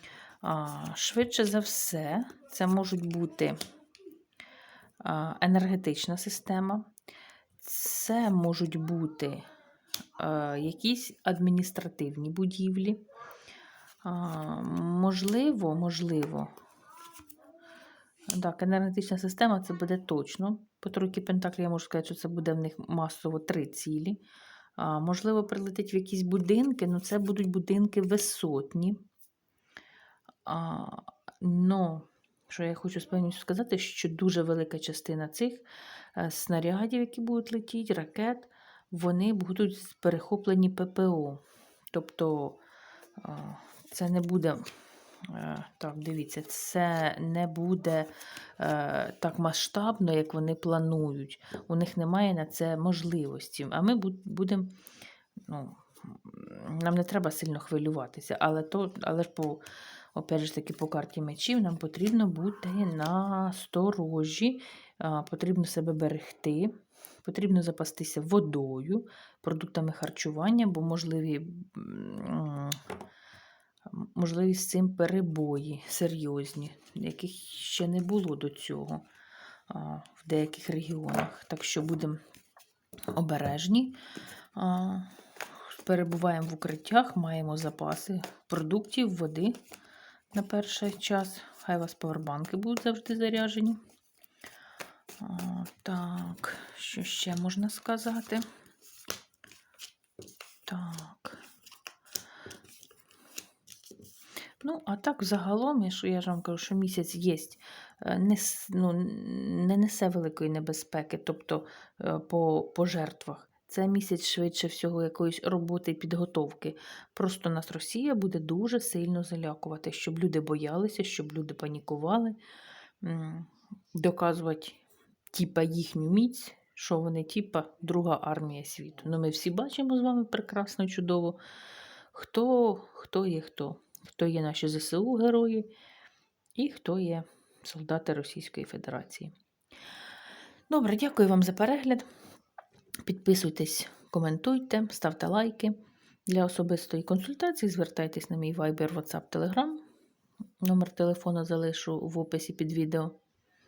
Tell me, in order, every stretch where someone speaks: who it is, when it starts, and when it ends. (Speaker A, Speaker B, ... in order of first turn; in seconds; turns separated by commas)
Speaker A: 0.4-3.6, Speaker A: 5.0-6.9, Speaker A: 7.6-9.4, Speaker A: 10.2-13.0, Speaker A: 14.0-16.5, Speaker A: 18.3-24.2, Speaker A: 24.8-29.0, Speaker A: 30.4-42.6, Speaker A: 43.2-44.7, Speaker A: 45.2-54.8, Speaker A: 55.5-72.8, Speaker A: 73.9-79.0, Speaker A: 79.7-82.2, Speaker A: 83.1-84.0, Speaker A: 84.5-89.6, Speaker A: 90.3-93.8, Speaker A: 95.2-98.4, Speaker A: 100.7-101.4, Speaker A: 104.6-122.4, Speaker A: 123.0-131.4, Speaker A: 132.1-135.7, Speaker A: 136.5-139.3, Speaker A: 140.7-142.1, Speaker A: 143.0-149.8, Speaker A: 150.6-153.2